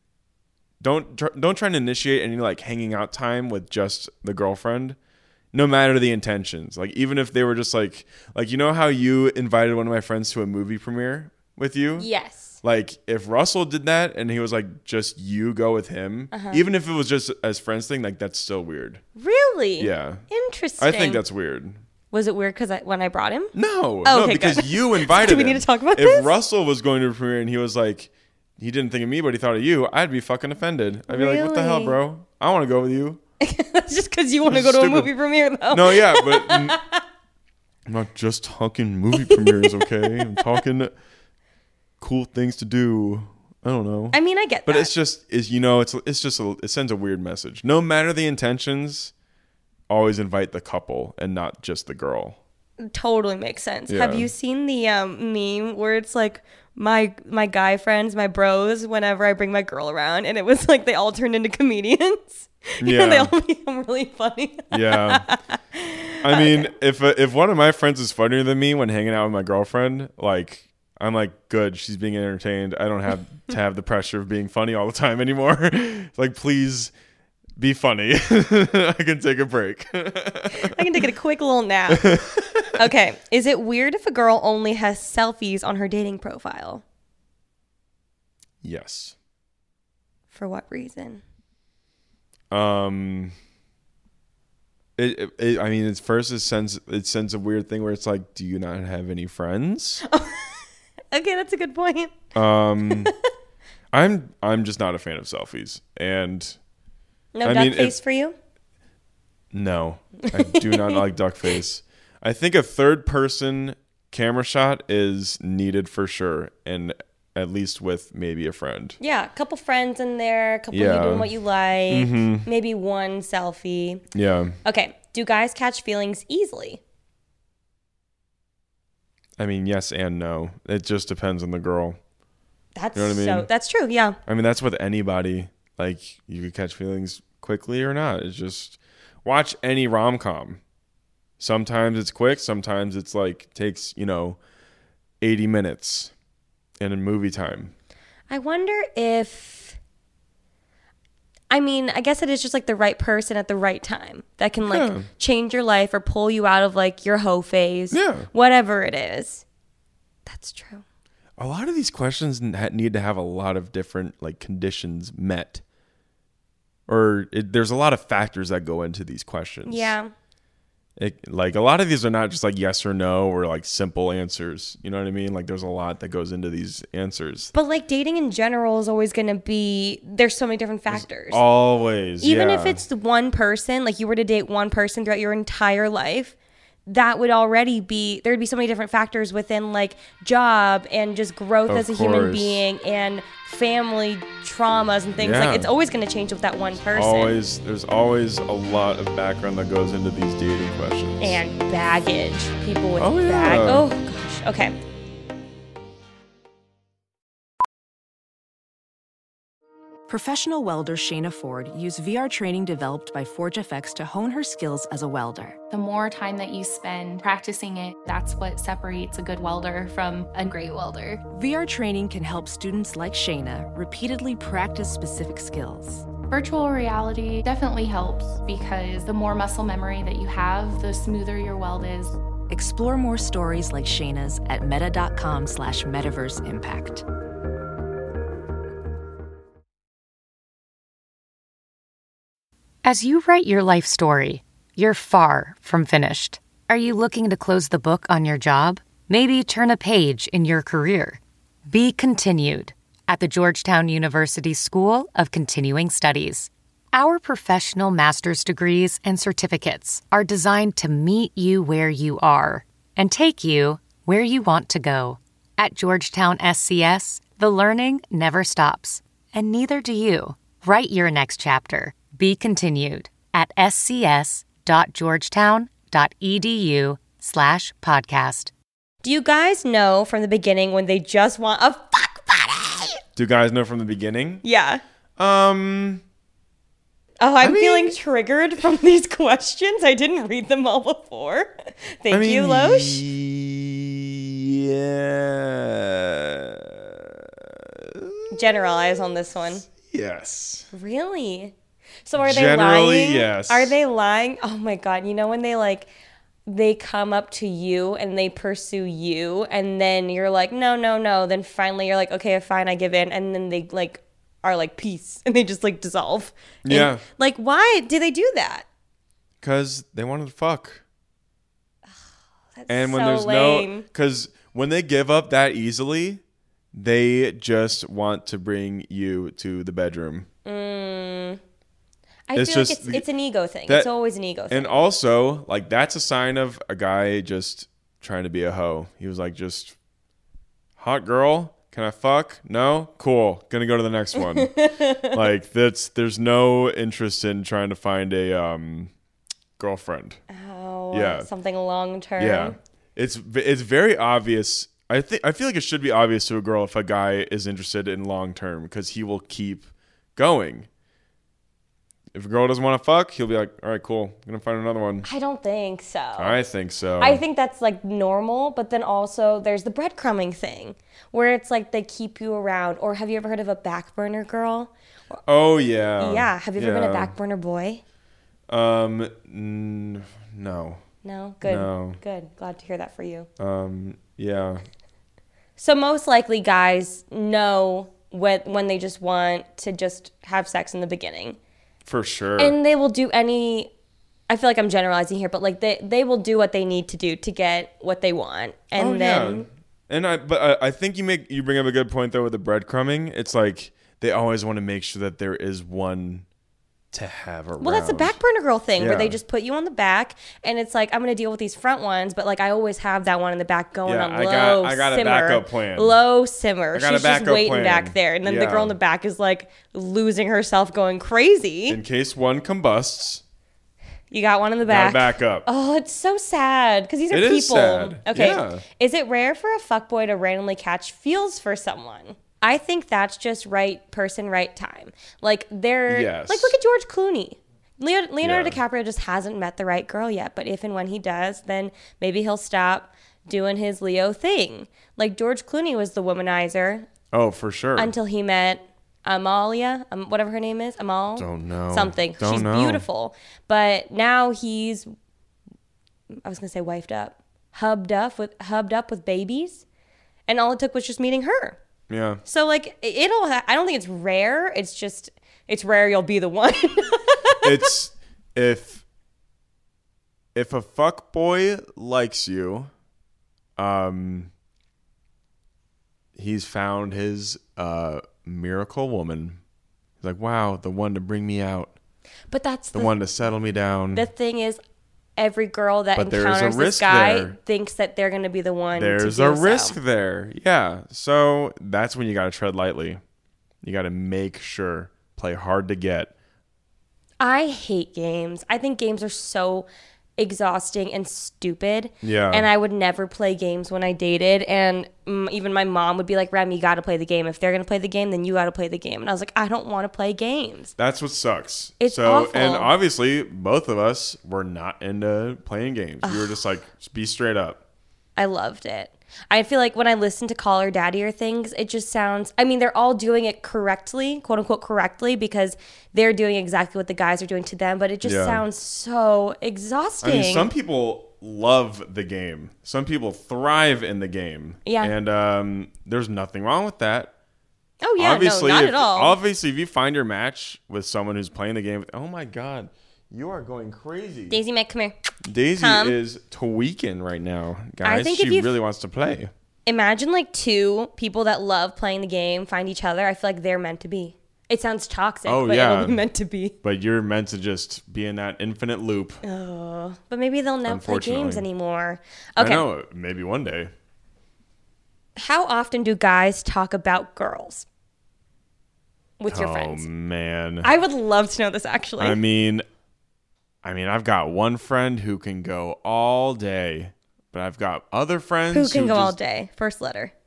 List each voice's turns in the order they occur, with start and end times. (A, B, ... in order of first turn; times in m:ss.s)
0:00.8-0:05.0 A
0:05.5-0:12.1 A
0:12.0-0:12.6 B
0:12.6-0:19.0 A
0:16.3-0:16.6 B
0:19.2-0:21.2 B
0:19.8-0:20.2 A
0:20.8-0:21.8 A
0:22.1-0:26.4 B
0:23.5-0:33.2 A
0:31.1-0:32.0 B
0:33.4-0:37.0 B
0:34.5-0:35.1 A
0:35.7-0:36.8 A
0:37.9-0:40.9 A
0:39.2-0:40.4 B
0:42.0-0:49.1 A
0:44.1-0:44.9 B
0:49.9-0:52.4 A
0:52.8-1:06.7 B
0:53.9-0:54.3 A
1:02.8-1:03.3 A
1:04.7-1:05.2 A
1:06.2-1:16.9 A
1:17.6-1:21.0 A
1:20.5-1:22.2 B
1:21.9-1:22.8 A
1:22.7-1:26.8 B
1:28.6-1:29.2 A
1:30.3-1:31.2 B
1:32.5-1:33.3 A
1:35.0-1:40.0 A
1:40.1-1:42.2 B
1:42.4-1:43.1 A
1:42.8-1:43.1 B
1:43.9-1:46.6 A
1:47.4-1:48.4 B
1:47.4-1:48.0 A
1:49.5-1:59.0 A
1:50.2-1:51.0 B
1:59.0-2:04.0 B
2:00.7-2:01.3 A
2:01.9-2:02.5 A
2:04.1-2:04.6 A
2:04.6-2:06.8 B
2:09.4-2:12.0 A
2:12.8-2:14.2 B
2:13.0-2:13.5 A
2:14.3-2:20.6 A
2:21.4-2:24.4 A
2:25.2-2:26.1 A
2:26.8-2:27.7 A
2:28.3-2:29.8 B
2:31.5-2:39.4 B
2:34.6-2:35.1 A
2:37.9-2:38.3 A
2:40.3-2:40.8 B
2:41.4-2:45.6 A
2:46.9-2:50.0 A
2:49.7-2:50.1 B
2:51.0-2:57.5 A
2:57.5-3:01.4 B
3:00.9-3:02.8 A
3:02.2-3:17.4 B
3:11.7-3:12.7 A
3:15.2-3:15.7 A
3:16.9-3:21.4 A
3:21.2-3:24.8 B
3:23.0-3:23.9 A
3:30.1-3:35.6 C
3:35.7-3:41.2 D
3:41.3-3:46.1 C
3:46.3-3:52.2 D
3:52.5-3:57.0 C
4:02.8-4:38.5 E
4:39.0-4:43.0 B
4:43.2-4:44.4 A
4:44.4-4:44.8 B
4:45.2-4:46.0 A
4:47.2-4:53.0 B
4:47.4-4:48.0 A
4:52.1-4:58.2 A
4:58.3-4:59.6 B
4:59.7-5:00.7 A
5:00.7-5:01.5 B
5:02.0-5:05.9 B
5:02.2-5:03.8 A
5:06.5-5:18.7 B
5:16.6-5:17.0 A
5:19.4-5:20.8 A
5:22.6-5:23.9 B
5:22.7-5:26.2 A
5:26.7-5:30.3 A
5:30.4-5:31.4 B
5:32.3-5:34.8 B
5:32.4-5:33.0 A
5:34.5-5:39.8 A
5:40.8-5:44.5 A
5:44.2-5:45.2 B
5:45.1-5:48.9 A
5:49.6-5:50.2 A
5:50.3-5:52.6 B
5:50.9-5:51.3 A
5:52.2-6:00.7 A
6:02.1-6:05.1 A
6:05.0-6:06.4 B
6:06.2-6:07.2 A
6:07.0-6:15.2 B
6:15.3-6:17.1 A
6:16.0-6:17.8 B
6:18.5-6:20.8 A
6:21.0-6:23.3 B
6:21.4-6:22.0 A
6:23.4-6:24.6 A
6:25.6-6:31.4 B
6:31.9-6:32.6 A
6:32.4-6:33.7 B
6:34.3-6:39.5 B
6:38.8-6:46.3 A
6:46.9-6:48.2 A
6:47.6-7:01.8 B
6:48.8-6:49.2 A
6:53.8-6:56.0 A
6:56.7-6:58.8 A
7:01.7-7:03.2 A
7:04.1-7:26.9 B
7:04.7-7:05.5 A
7:07.1-7:08.6 A
7:15.9-7:16.6 A
7:18.2-7:18.6 A
7:27.1-7:27.9 A
7:27.8-7:34.9 B
7:31.2-7:32.8 A
7:36.2-7:39.6 B
7:40.3-7:41.6 B
7:41.9-7:42.2 A
7:42.2-7:47.6 B
7:47.4-7:48.8 A
7:50.3-7:52.7 A
7:53.6-7:54.3 A
7:56.2-7:59.4 A
8:00.0-8:01.7 A
8:02.3-8:03.0 B
8:02.7-8:04.1 A
8:03.9-8:04.6 B
8:05.2-8:09.8 B
8:06.0-8:07.4 A
8:08.8-8:13.0 A
8:13.6-8:16.1 A
8:17.2-8:30.7 B
8:22.0-8:22.5 A
8:30.8-8:37.6 A
8:31.8-8:32.7 B
8:36.0-8:36.3 B
8:38.2-8:50.5 B
8:48.0-8:48.4 A
8:50.0-8:57.1 A
8:54.6-8:54.9 B
8:57.8-8:59.2 B
8:58.0-9:04.4 A
9:04.3-9:05.0 B
9:05.2-9:09.3 A
9:05.6-9:06.0 B
9:07.8-9:08.6 B
9:09.6-9:16.6 B
9:15.2-9:16.0 A
9:16.6-9:19.2 A
9:19.2-9:22.6 B
9:20.6-9:21.5 A
9:22.4-9:23.7 A
9:25.2-9:27.6 B
9:29.2-9:29.9 B
9:29.3-9:30.7 A
9:30.6-9:32.2 B
9:32.0-9:32.6 A
9:33.6-9:39.2 A
9:38.5-9:40.1 B